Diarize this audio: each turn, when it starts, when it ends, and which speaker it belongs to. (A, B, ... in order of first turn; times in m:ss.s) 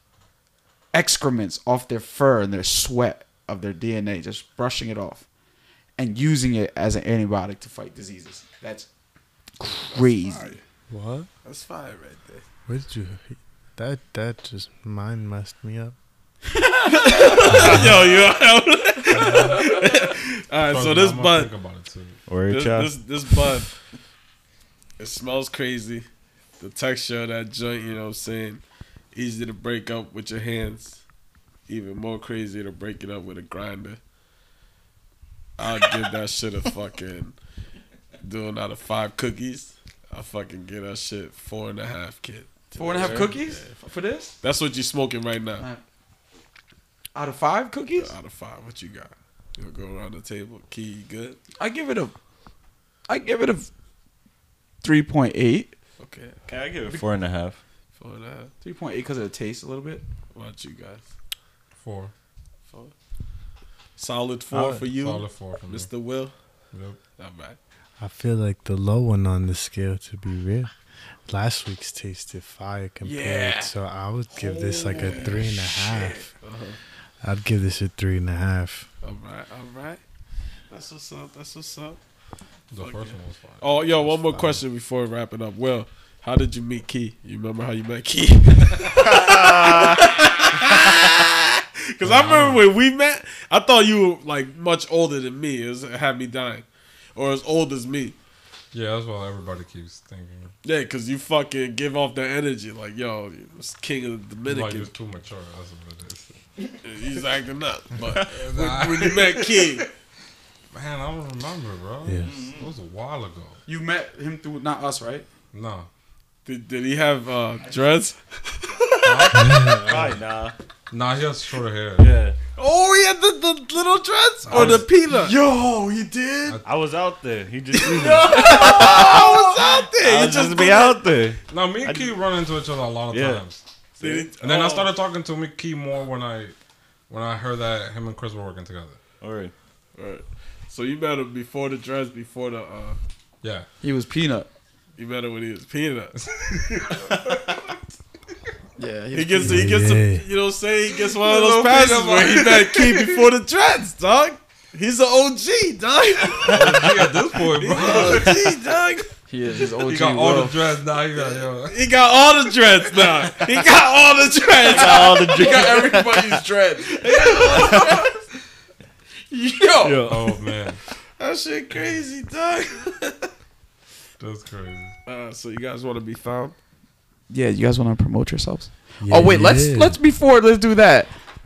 0:00.9-0:05.3 A
0:06.0-0:08.9 A
0:09.6-0:10.5 A
0:09.9-0:10.6 B
0:10.9-0:11.3 C
0:11.4-0:12.4 B
0:12.7-0:15.9 C
0:16.5-0:17.8 A
0:16.9-0:21.5 B
0:19.1-0:19.6 D
0:20.7-0:22.2 D
0:22.3-0:23.0 E
0:22.5-0:23.7 B
0:25.0-0:26.1 B
0:26.6-0:28.6 B
0:29.1-0:31.0 B
0:31.7-0:34.0 B
0:35.6-0:37.4 B
0:38.2-0:43.7 B
0:42.7-0:44.4 A
0:44.4-0:45.6 B
0:47.1-0:48.1 A
0:48.0-0:51.4 B
0:51.6-0:52.1 A
0:53.1-0:53.7 A
0:54.8-0:55.7 A
0:56.0-0:56.5 B
0:56.5-0:57.6 E
0:58.0-0:58.5 B
0:58.6-1:00.0 A
1:00.3-1:01.0 B
1:01.8-1:02.1 D
1:04.0-1:06.3 B
1:04.5-1:05.9 D
1:06.7-1:07.0 D
1:07.2-1:07.6 B
1:08.0-1:10.7 C
1:11.3-1:16.2 C
1:13.0-1:13.7 A
1:14.4-1:15.7 B
1:14.7-1:16.3 A
1:16.3-1:16.8 B
1:17.2-1:18.9 C
1:19.0-1:20.0 B
1:20.7-1:22.0 B
1:22.7-1:24.4 D
1:22.8-1:38.2 B
1:29.0-1:30.0 E
1:32.0-1:32.7 D
1:38.7-1:40.5 D
1:40.6-1:44.9 B
1:44.4-1:46.3 D
1:46.8-1:49.8 B
1:48.2-1:49.4 D
1:50.7-1:53.6 D
1:52.2-1:52.7 E
1:53.7-1:55.3 A
1:55.5-1:55.9 D
1:56.4-1:59.5 B
1:59.0-2:00.1 D
1:59.4-1:59.8 C
1:59.6-2:00.6 E
2:00.9-2:02.1 D
2:02.0-2:02.4 E
2:02.6-2:05.4 B
2:04.4-2:04.9 D
2:04.5-2:06.6 A
2:06.6-2:09.4 E
2:07.8-2:11.0 B
2:07.9-2:09.5 A
2:10.0-2:12.1 E
2:11.5-2:13.6 D
2:13.1-2:13.4 E
2:14.0-2:14.9 B
2:14.0-2:14.3 E
2:14.4-2:16.6 D
2:17.1-2:19.0 D
2:19.2-2:19.5 E
2:20.0-2:23.0 B
2:23.8-2:24.5 A
2:25.0-2:26.2 B
2:26.2-2:27.7 D
2:26.9-2:27.4 E
2:28.8-2:29.7 A
2:29.1-2:36.9 B
2:29.4-2:30.2 C
2:31.2-2:33.3 D
2:36.5-2:38.4 D
2:37.6-2:39.1 B
2:37.9-2:38.3 E
2:39.3-2:40.6 A
2:39.8-2:41.8 D
2:41.2-2:45.6 B
2:44.7-2:46.4 E
2:44.7-2:48.1 A
2:47.0-2:48.1 B
2:47.5-2:48.0 E
2:49.3-2:50.0 A
2:49.8-2:50.4 E
2:50.0-2:50.8 D
2:51.2-2:53.3 B
2:54.2-2:55.0 D
2:55.1-2:56.6 B
2:57.3-3:01.1 A
2:59.0-3:00.0 C